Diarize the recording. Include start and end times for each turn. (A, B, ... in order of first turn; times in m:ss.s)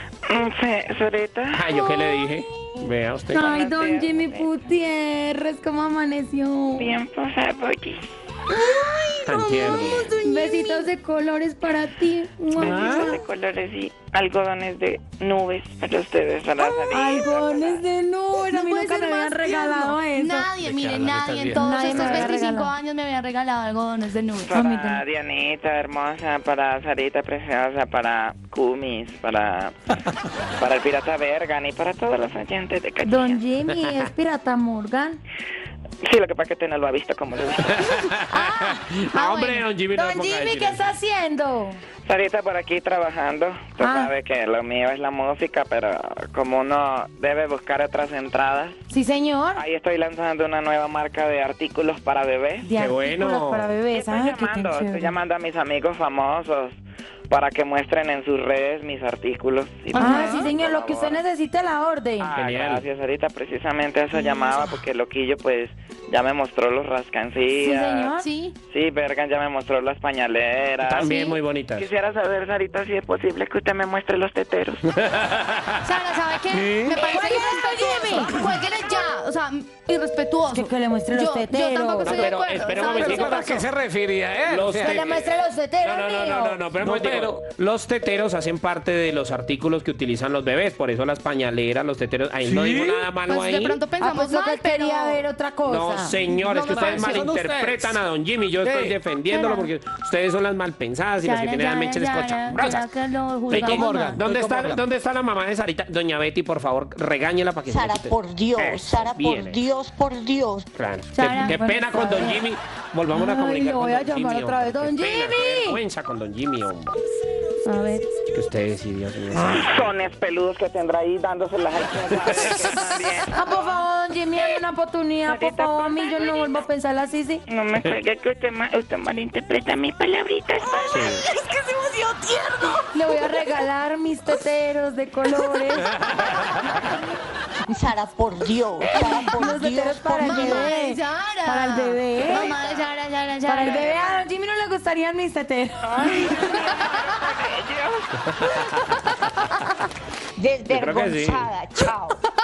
0:00.3-0:01.7 A
0:01.5-0:03.5 B
0:03.3-0:07.0 C
0:03.4-0:04.5 A
0:06.8-0:08.1 A
0:08.5-0:10.9 D
0:09.2-0:10.2 B
0:10.2-0:13.2 C
0:12.6-0:17.8 A
0:12.6-0:13.0 E
0:16.6-0:20.5 C
0:18.3-0:24.5 D
0:20.6-0:22.3 B
0:21.6-0:22.7 C
0:24.4-0:29.8 A
0:24.5-0:25.0 C
0:30.6-0:33.4 A
0:33.0-0:35.2 C
0:36.0-0:37.9 A
0:37.7-0:40.9 B
0:39.2-0:39.6 D
0:39.9-0:41.8 C
0:42.0-0:48.8 A
0:43.8-0:44.1 C
0:48.9-0:49.6 C
0:49.6-0:52.7 A
0:52.6-0:55.2 C
0:52.8-0:53.8 B
0:53.9-0:56.8 A
0:57.3-1:01.2 A
0:59.9-1:00.5 D
1:00.0-1:02.3 C
1:02.2-1:08.1 A
1:02.3-1:02.8 B
1:04.2-1:04.6 D
1:07.6-1:08.3 C
1:08.2-1:08.6 D
1:08.7-1:14.9 A
1:10.8-1:11.9 B
1:11.0-1:11.3 D
1:15.0-1:15.8 B
1:15.8-1:23.7 D
1:16.5-1:17.0 E
1:17.0-1:18.4 C
1:20.5-1:22.2 C
1:22.0-1:23.5 B
1:22.2-1:25.1 E
1:24.5-1:33.8 B
1:24.8-1:26.6 C
1:26.8-1:27.4 E
1:32.4-1:33.1 E
1:33.3-1:35.2 D
1:34.0-1:36.2 C
1:35.6-1:42.9 B
1:36.4-1:38.0 E
1:36.4-1:37.3 D
1:38.6-1:39.0 E
1:39.3-1:39.7 D
1:41.2-1:44.2 D
1:42.5-1:42.9 E
1:43.5-1:44.9 E
1:43.5-1:49.6 B
1:47.7-1:50.7 F
1:50.8-1:57.0 B
1:51.2-1:51.6 D
1:51.4-1:52.4 C
1:53.1-1:55.8 C
1:57.7-1:58.1 D
1:58.3-1:59.8 B
1:59.5-2:03.8 A
2:03.3-2:07.4 C
2:05.2-2:06.7 A
2:07.5-2:11.2 A
2:10.6-2:13.3 D
2:10.9-2:11.2 B
2:12.9-2:16.0 C
2:17.7-2:20.7 F
2:19.2-2:22.5 C
2:20.2-2:24.0 D
2:22.3-2:22.9 A
2:23.5-2:26.2 C
2:23.6-2:24.2 A
2:25.8-2:28.1 A
2:28.4-2:28.8 B
2:30.4-2:32.2 F
2:30.7-2:31.5 B